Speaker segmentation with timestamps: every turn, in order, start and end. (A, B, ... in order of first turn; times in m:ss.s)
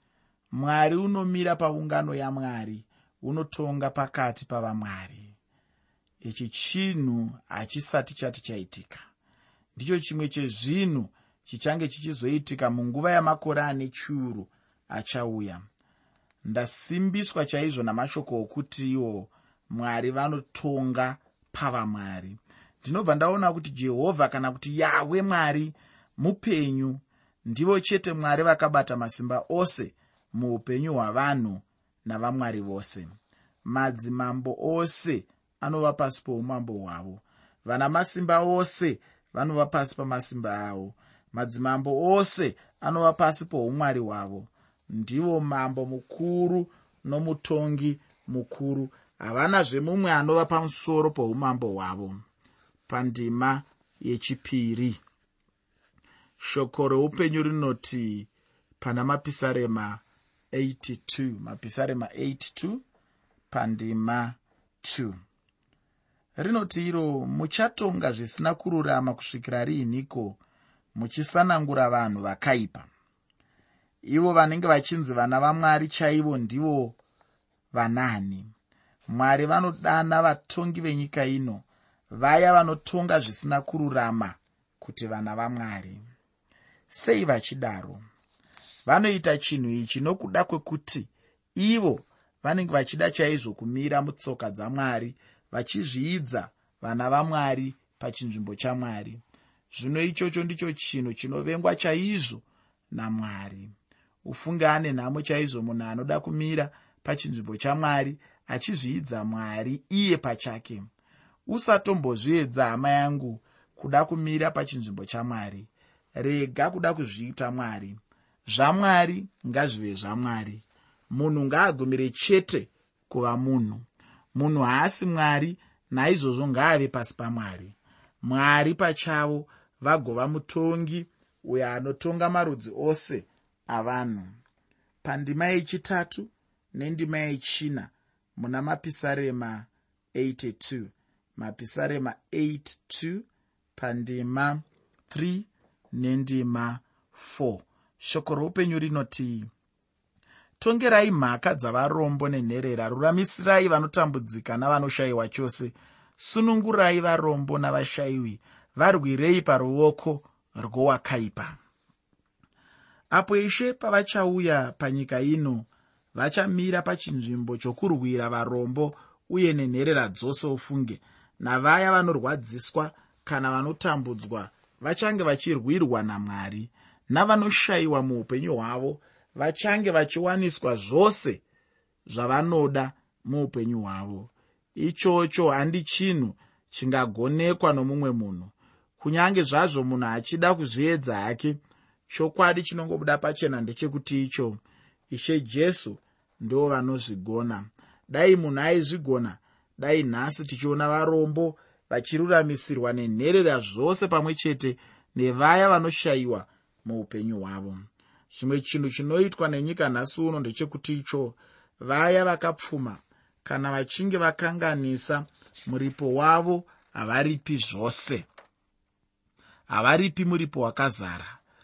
0:00.5-0:05.4 A
0:06.2-0:09.0 A
0:09.7-0:15.6 A
0:16.4-0:33.1 A
0:33.6-0:52.2 A
0:52.9-0:55.0 A
0:56.4-1:02.8 A
1:03.5-1:05.2 A
1:06.4-1:10.4 A
1:10.9-1:12.9 A
1:14.0-1:17.0 A
1:17.7-1:18.5 A
1:19.1-1:26.0 A
1:26.9-1:28.0 A
1:28.8-1:43.7 A
1:44.2-1:50.8 A
1:51.5-2:03.8 A
2:04.3-2:14.4 A
2:15.0-2:23.2 A
2:23.8-2:29.5 A
2:30.6-2:41.6 A
2:43.1-3:01.4 A
3:02.0-3:38.3 A
3:39.7-3:41.4 A